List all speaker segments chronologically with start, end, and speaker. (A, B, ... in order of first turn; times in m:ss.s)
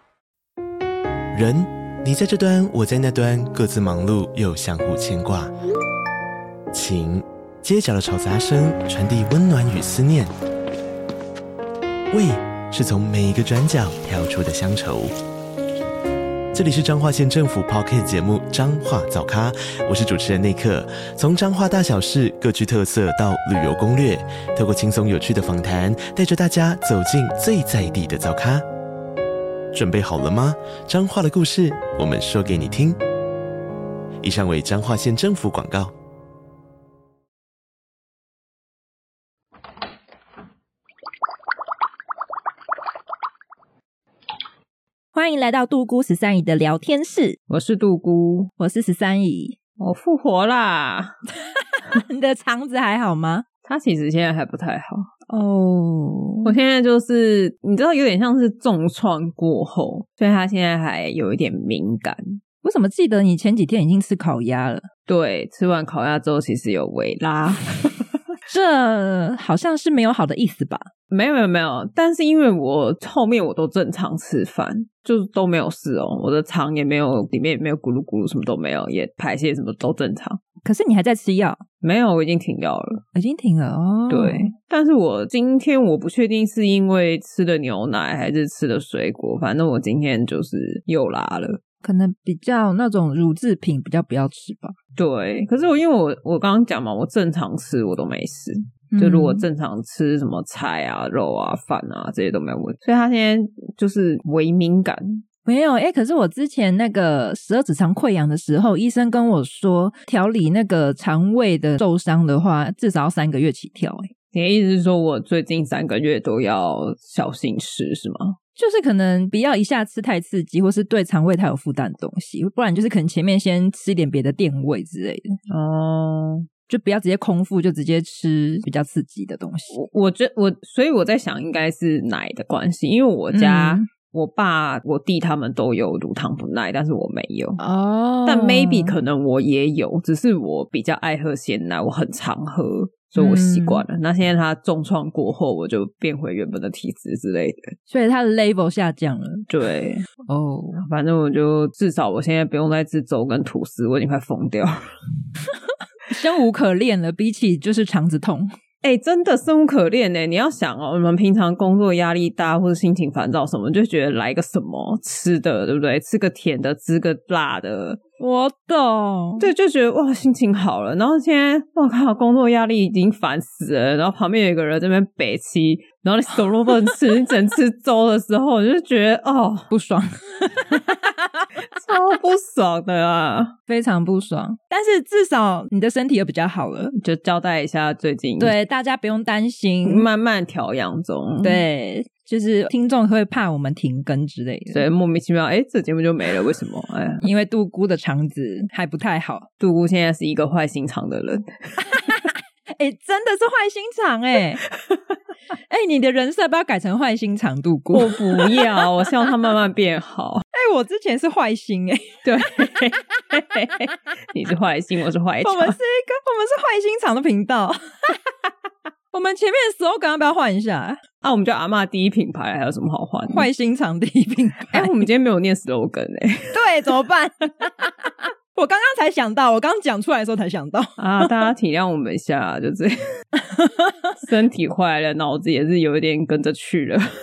0:01.3-0:05.5 A
0:06.7-0:10.3 A
0:12.1-0:15.1 A
0:16.5-0:28.6 A
0:29.7-0:33.0 A
0:34.2-0:35.9 A
0:45.1-0:47.4 B
0:47.5-0:48.5 C
0:48.6-0:49.6 B
0:49.8-0:51.1 C
0:51.5-0:53.4 B
0:53.6-0:55.1 C
0:55.3-0:56.6 B
0:56.4-1:02.4 C
1:02.6-1:04.8 B
1:05.1-1:08.1 C
1:08.5-1:10.9 B
1:11.1-1:20.4 C
1:20.6-1:21.6 B
1:21.8-1:23.0 C
1:23.1-1:24.5 B
1:24.1-1:31.6 C
1:31.8-1:34.7 B
1:35.0-1:45.2 C
1:38.9-1:39.4 B
1:45.4-1:54.1 B
1:54.3-1:58.4 C
1:58.6-2:05.3 B
2:05.5-2:06.4 C
2:06.7-2:09.7 B
2:09.7-2:17.6 C
2:13.3-2:13.9 B
2:17.6-2:18.9 B
2:18.2-2:27.6 C
2:23.2-2:23.8 B
2:27.9-2:29.4 B
2:29.5-2:30.0 C
2:30.3-2:30.8 B
2:30.8-2:34.8 C
2:36.1-2:38.5 B
2:38.8-2:48.0 C
2:48.2-2:49.5 B
2:49.4-2:59.7 C
2:59.7-3:01.4 B
3:01.7-3:03.5 C
3:03.7-3:06.9 B
3:07.0-3:08.6 C
3:08.4-3:10.1 B
3:09.8-3:11.6 C
3:11.4-3:14.9 B
3:14.7-3:17.2 C
3:17.2-3:19.5 B
3:19.6-3:21.5 C
3:21.9-3:24.6 B
3:25.7-3:28.7 B
3:27.9-3:30.4 C
3:30.5-3:32.2 B
3:32.2-3:35.8 C
3:35.4-3:37.8 B
3:39.1-3:41.0 B
3:41.2-3:43.5 C
3:43.3-3:45.0 B
3:44.7-3:47.0 C
3:46.5-3:51.4 B
3:51.0-3:52.9 C
3:53.4-3:53.9 B
3:54.2-3:57.0 C